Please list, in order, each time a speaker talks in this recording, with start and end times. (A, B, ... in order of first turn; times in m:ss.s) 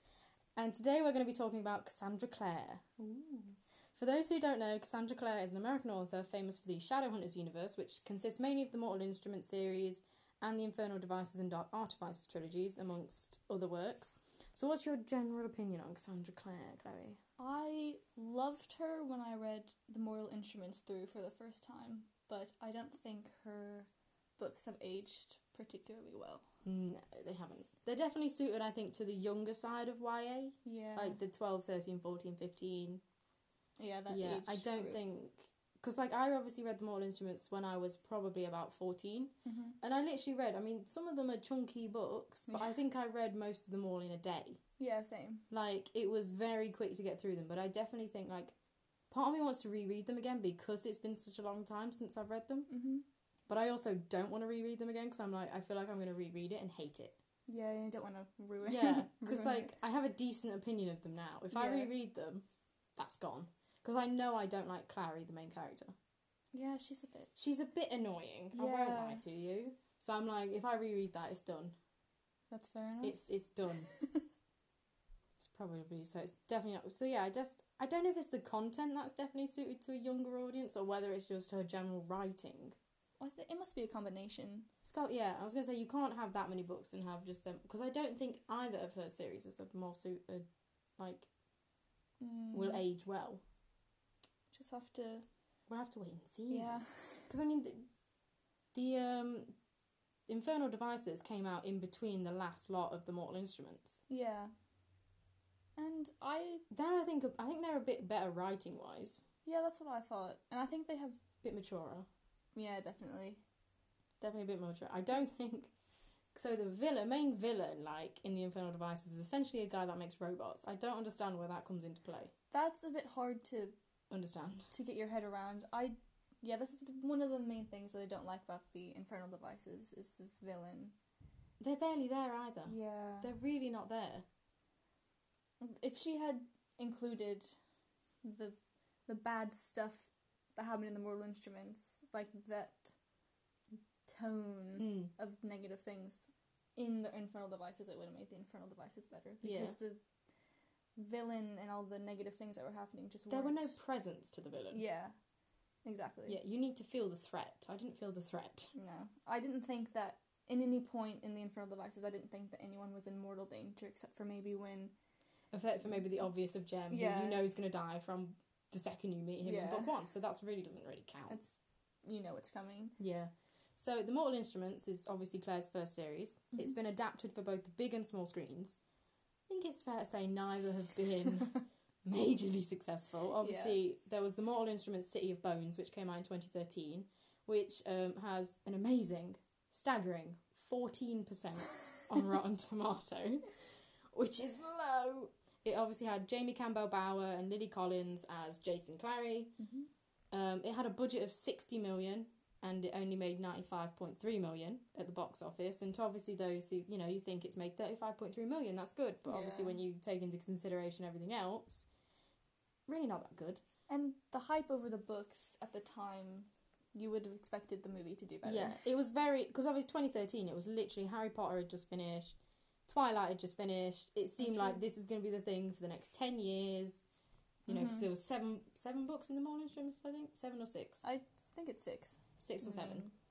0:00.6-0:03.0 A
0:03.0-0:03.5 B
0:03.9-0:17.2 A
0:17.4-0:26.4 B
0:26.6-0:33.0 A
0:30.6-0:31.2 B
0:33.8-0:35.0 B
0:34.1-0:44.6 A
0:39.4-0:39.8 B
0:44.8-0:45.4 B
0:45.5-0:48.5 A
0:49.1-0:52.7 A
0:52.7-0:53.0 B
0:53.5-0:57.2 A
0:57.5-0:59.7 B
0:58.6-1:02.4 A
1:01.5-1:01.9 B
1:03.0-1:05.9 A
1:06.5-1:07.3 B
1:07.4-1:11.7 A
1:08.5-1:09.2 B
1:12.5-1:13.2 B
1:13.0-1:13.9 A
1:13.8-1:14.2 B
1:15.4-1:22.8 A
1:23.2-1:24.7 B
1:24.8-1:30.4 A
1:31.0-1:31.3 A
1:32.2-1:32.8 B
1:32.5-1:33.4 A
1:34.5-1:35.2 B
1:35.7-1:37.9 A
1:36.5-1:37.3 B
1:38.7-1:39.5 A
1:40.3-1:44.0 A
1:44.1-1:44.5 B
1:45.8-1:46.6 B
1:46.7-1:49.2 A
1:49.4-1:51.2 B
1:51.4-1:52.1 A
1:52.5-1:53.4 B
1:54.2-1:55.7 A
1:56.3-2:02.3 A
2:02.5-2:03.8 B
2:04.1-2:04.7 A
2:04.7-2:10.9 B
2:11.6-2:14.2 A
2:12.6-2:13.3 B
2:15.6-2:17.6 B
2:18.2-2:22.9 B
2:24.1-2:30.0 B
2:24.8-2:25.1 A
2:29.4-2:29.7 A
2:31.0-2:33.8 B
2:33.3-2:34.8 A
2:34.7-2:35.1 B
2:35.8-2:36.4 B
2:36.3-2:38.7 A
2:38.7-2:44.9 B
2:45.5-2:51.4 A
2:46.9-2:47.4 B
2:49.4-2:50.0 B
2:51.3-2:53.0 B
2:53.0-2:58.8 A
2:59.5-3:19.5 A
3:03.4-3:03.8 B
3:19.6-3:19.9 B
3:20.3-3:31.9 A
3:29.3-3:29.8 B
3:32.9-3:33.6 A
3:33.9-3:38.8 B
3:38.4-3:47.0 A
3:44.4-3:44.8 B
3:47.7-3:51.0 A
3:47.7-3:48.1 B
3:51.0-3:53.1 B
3:52.4-3:53.0 A